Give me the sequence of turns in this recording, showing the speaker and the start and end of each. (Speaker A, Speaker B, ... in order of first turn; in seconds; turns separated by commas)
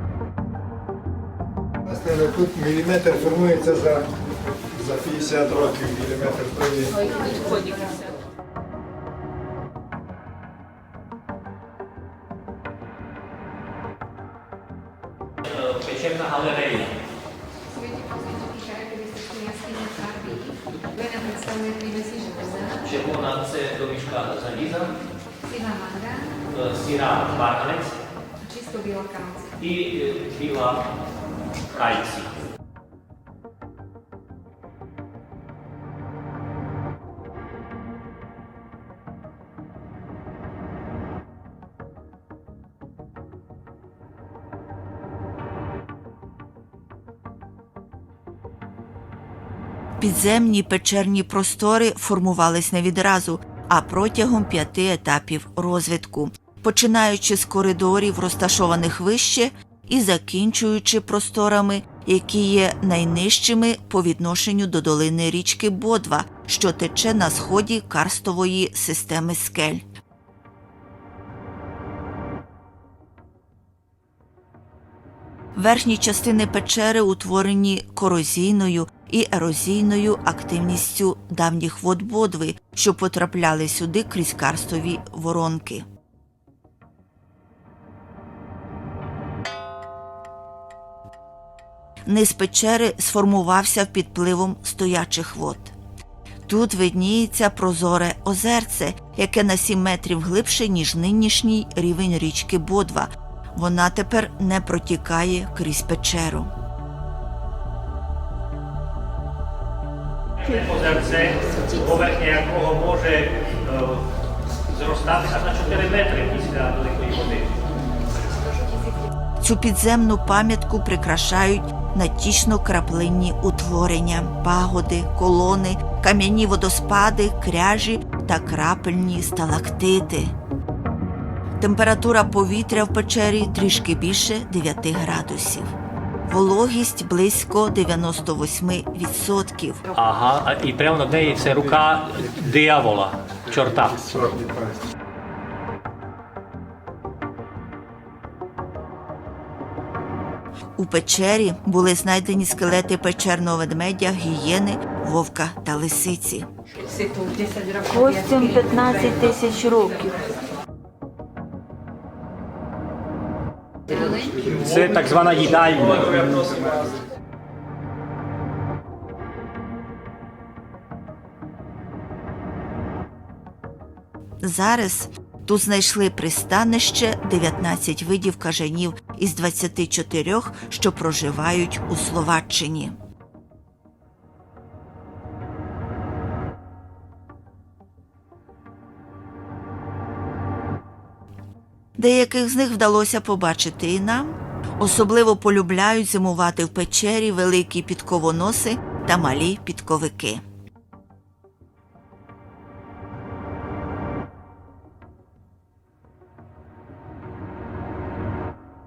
Speaker A: 1.9-4.1, Speaker A: 4.8-6.9, Speaker B: 15.5-16.9, Speaker C: 17.7-22.9, Speaker B: 22.8-25.0, Speaker C: 25.4-26.4, Speaker B: 26.5-27.9, Speaker C: 28.4-29.6, Speaker B: 29.6-30.8, Speaker B: 31.7-32.3, Speaker D: 50.0-69.8, Speaker D: 75.5-85.8, Speaker D: 92.0-95.7, Speaker D: 96.5-106.5, Speaker B: 110.4-114.0, Speaker B: 114.7-117.5, Speaker D: 119.4-130.3, Speaker D: 131.6-135.7, Speaker D: 136.3-139.8, Speaker B: 139.9-144.4, Speaker D: 150.8-156.5, Speaker D: 157.7-160.1, Speaker C: 163.9-164.5, Speaker B: 164.5-166.7, Speaker D: 174.4-182.9, Speaker D: 192.0-200.4